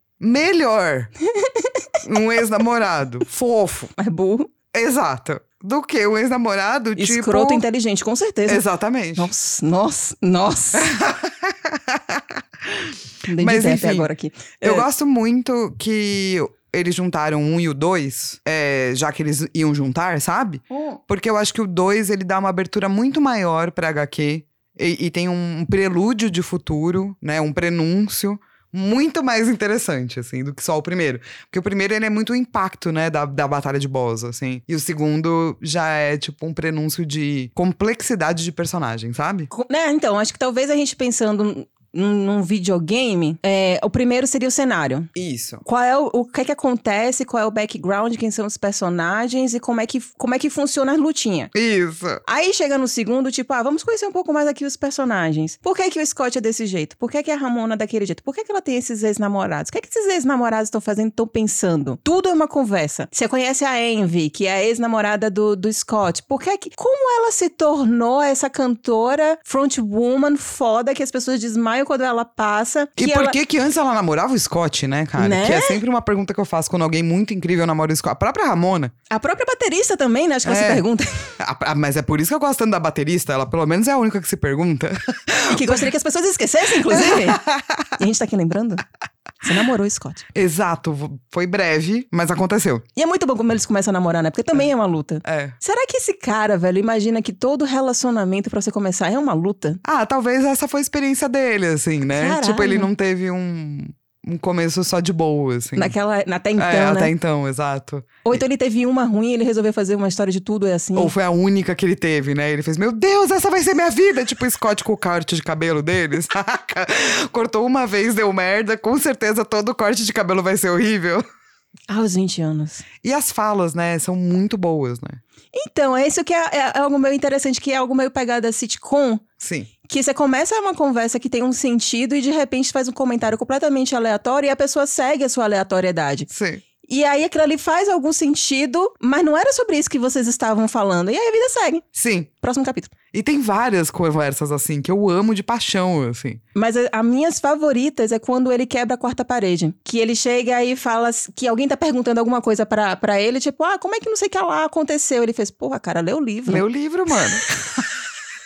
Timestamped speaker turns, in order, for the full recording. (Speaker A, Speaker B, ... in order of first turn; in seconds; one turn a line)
Speaker A: 0.2-1.1
Speaker B: 1.3-1.9
Speaker A: 2.0-3.9
Speaker B: 4.0-4.5
Speaker A: 4.7-7.6
Speaker B: 7.0-8.6
Speaker A: 8.5-9.3
Speaker B: 9.2-10.9
Speaker A: 10.7-14.1
Speaker B: 13.2-14.9
Speaker A: 14.6-39.5
Speaker B: 20.7-21.0
Speaker B: 39.5-45.1
Speaker A: 45.1-45.6
Speaker B: 45.6-51.5
Speaker A: 51.5-52.2
Speaker B: 52.2-73.3
Speaker A: 73.0-78.9
Speaker B: 75.2-75.8
Speaker B: 79.1-81.3
Speaker A: 80.4-80.8
Speaker A: 81.4-85.9
Speaker B: 85.5-87.4
Speaker A: 86.9-87.9
Speaker B: 88.0-88.8
Speaker B: 89.4-90.3
Speaker A: 90.3-92.8
Speaker B: 93.0-99.8
Speaker A: 95.2-95.5
Speaker A: 99.8-105.9
Speaker B: 102.1-102.9
Speaker B: 105.8-107.1
Speaker A: 106.6-108.4
Speaker B: 108.2-111.1
Speaker A: 110.9-121.2
Speaker B: 121.9-122.8
Speaker A: 123.0-125.2
Speaker B: 125.5-129.2
Speaker A: 129.4-129.7
Speaker B: 129.9-136.3
Speaker A: 136.3-136.6
Speaker B: 136.8-141.8
Speaker A: 141.9-142.3
Speaker B: 142.4-142.9
Speaker A: 143.1-146.4
Speaker B: 146.5-156.6
Speaker A: 156.4-158.0